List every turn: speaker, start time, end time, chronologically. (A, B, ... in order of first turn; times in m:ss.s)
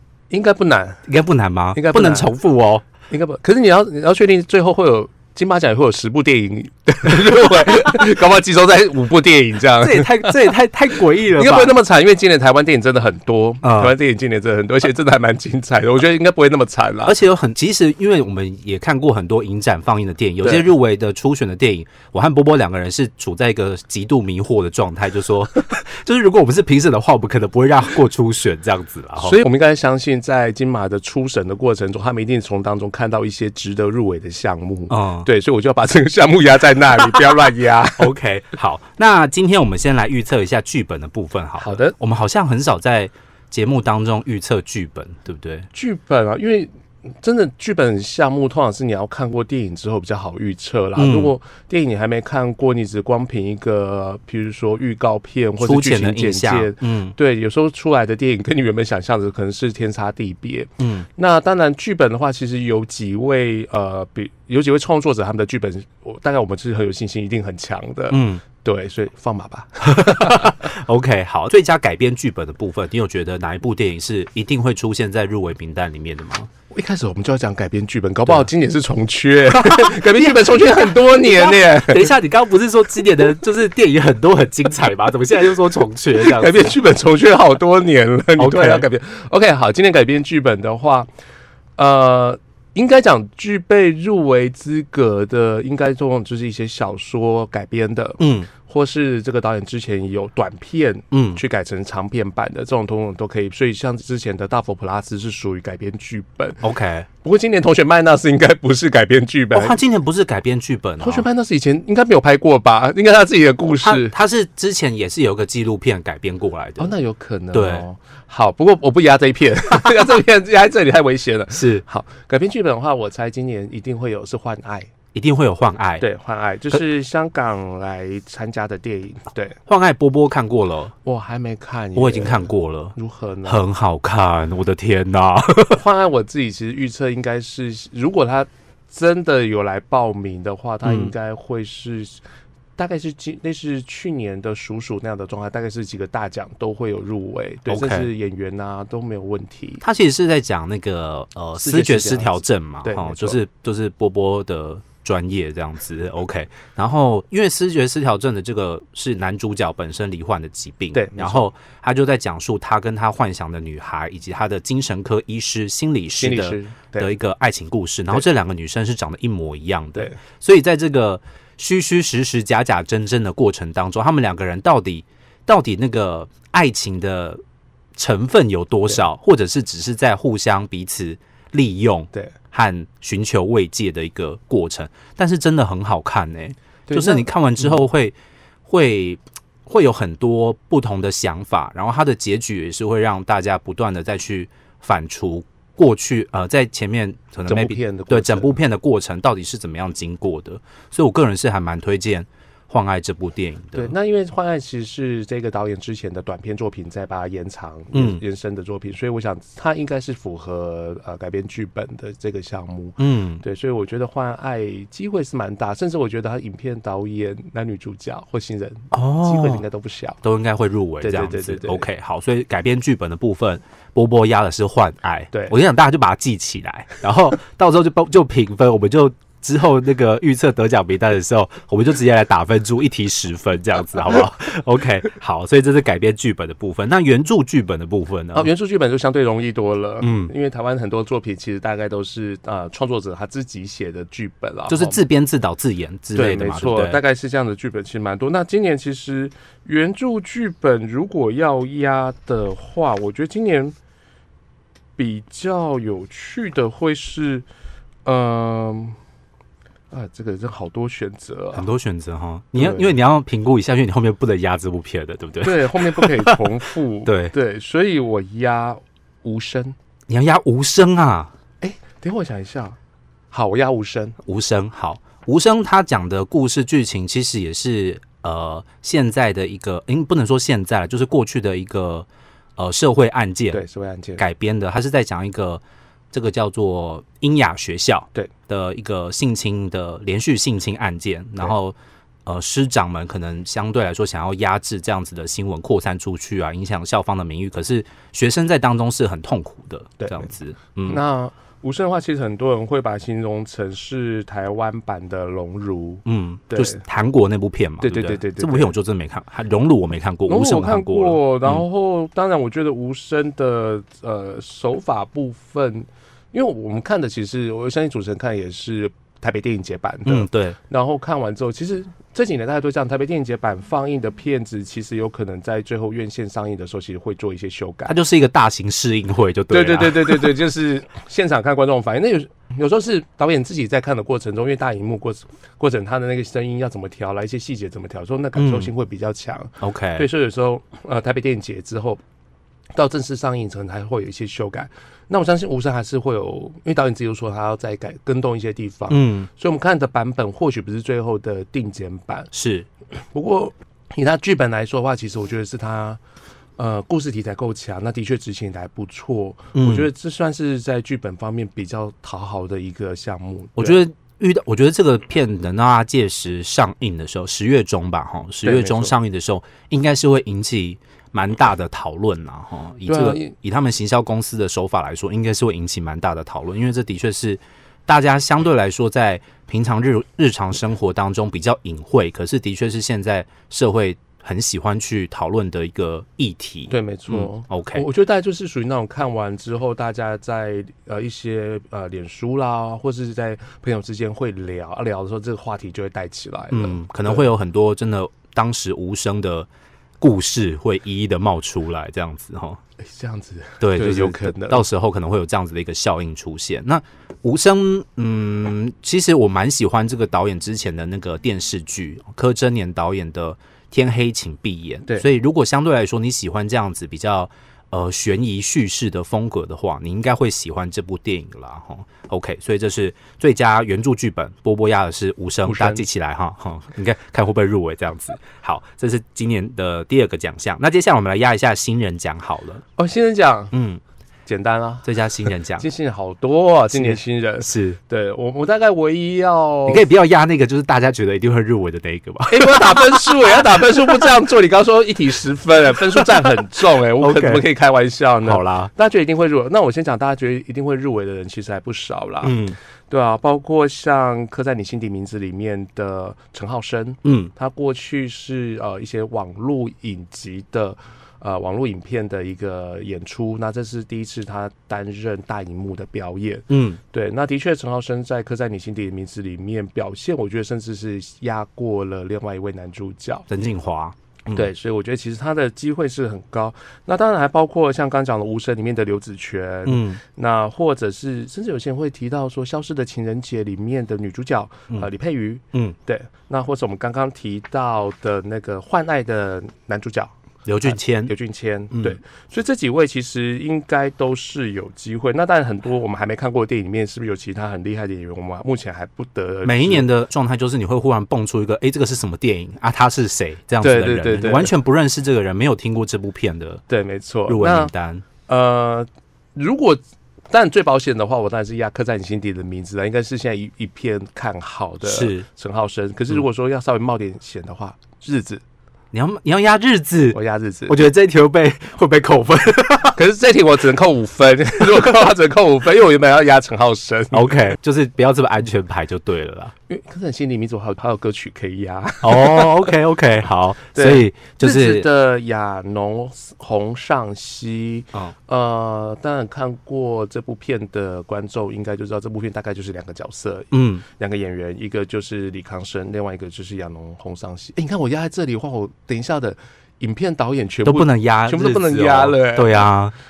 0:00.3-0:01.0 A
0:01.1-0:02.8 B
0:01.7-0:02.3 A
0:03.1-0:10.5 A
0:09.8-0:11.7 B
0:11.3-0:17.1 A
0:13.6-0:13.9 B
0:17.0-0:29.4 B
0:20.4-0:20.7 A
0:29.2-0:38.1 A
0:34.9-0:35.3 B
0:38.0-0:45.7 B
0:41.6-0:41.9 A
0:45.7-1:10.6 A
0:51.0-0:51.3 B
0:55.6-0:57.1 B
1:00.8-1:01.0 B
1:08.1-1:08.4 B
1:09.8-1:16.5 B
1:16.7-1:22.1 A
1:19.6-1:26.7 B
1:26.1-1:31.1 A
1:28.4-1:28.8 B
1:31.8-1:46.6 A
1:38.2-1:38.5 B
1:41.1-1:41.4 B
1:46.6-1:47.1 B
1:47.2-1:49.8 A
1:49.5-1:51.3 B
1:51.0-1:54.2 A
1:53.8-1:56.9 B
1:56.8-2:04.9 A
1:57.5-1:57.8 B
2:01.5-2:01.8 B
2:05.1-2:06.0 B
2:06.0-2:09.6 A
2:09.6-2:10.9 B
2:11.0-2:13.6 A
2:12.0-2:15.8 B
2:15.7-2:22.2 A
2:20.8-2:21.1 B
2:22.8-2:29.8 A
2:27.7-2:28.1 B
2:29.8-2:57.4 B
2:31.6-2:33.4 A
2:40.9-2:41.5 A
2:46.1-2:47.1 A
2:58.0-3:08.1 B
3:06.9-3:07.8 A
3:08.6-3:23.9 B
3:17.4-3:18.6 A
3:23.7-3:40.2 A
3:27.9-3:28.2 B
3:33.0-3:33.4 B
3:38.9-3:39.6 B
3:40.2-3:58.5 B
3:41.0-3:41.9 A
3:58.3-4:05.0 A
4:00.0-4:00.3 B
4:04.7-4:07.0 B
4:06.1-4:13.7 A
4:15.0-4:17.4 A
4:18.0-4:19.0 A
4:19.9-4:21.7 A
4:21.5-4:26.4 B
4:22.6-4:22.9 A
4:25.4-4:29.8 A
4:27.0-4:27.3 B
4:30.1-4:31.3 B
4:31.6-4:32.8 A
4:33.3-4:34.2 A
4:34.2-4:43.6 B
4:43.5-4:44.2 A
4:44.2-5:01.0 B
5:00.0-5:00.3 A
5:00.9-5:06.8 A
5:06.0-5:11.6 B
5:07.8-5:08.7 A
5:10.3-5:27.9 A
5:20.0-5:20.6 B
5:27.9-5:30.3 B
5:29.5-5:42.0 A
5:38.4-5:38.7 B
5:39.6-5:40.1 B
5:42.7-5:52.3 A
5:48.9-5:49.3 B
5:52.3-5:52.7 B
5:53.0-5:56.0 A
5:56.6-6:03.8 A
5:59.5-5:59.9 B
6:03.6-6:27.8 B
6:08.4-6:08.9 A
6:12.9-6:13.3 A
6:26.7-6:37.3 A
6:36.5-6:39.5 B
6:40.0-6:42.6 B
6:42.8-6:44.6 A
6:43.6-7:12.6 B
7:05.4-7:05.9 A
7:12.8-7:13.5 A
7:13.5-7:13.8 B
7:14.2-7:19.8 A
7:14.8-7:15.6 B
7:16.7-7:17.8 B
7:19.7-7:23.6 B
7:22.3-7:32.4 A
7:27.0-7:27.4 B
7:28.2-7:28.7 B
7:32.2-7:32.6 B
7:32.9-7:53.3 A
7:37.0-7:37.3 B
7:46.5-7:46.8 B
7:53.3-7:54.4 B
7:54.3-8:10.1 A
7:59.7-8:00.0 B
8:10.4-8:11.1 B
8:10.6-8:19.9 A
8:11.7-8:12.0 B
8:19.4-8:26.6 B
8:23.6-8:24.5 A
8:26.7-8:27.7 A
8:27.3-8:28.0 B
8:28.3-8:38.4 A
8:34.8-8:35.3 B
8:38.9-8:43.0 B
8:40.1-8:40.8 A
8:43.0-8:47.4 A
8:47.1-8:49.5 B
8:49.7-8:52.7 A
8:52.0-8:54.8 B
8:53.7-9:12.6 A
9:03.5-9:03.8 B
9:10.6-9:12.9 B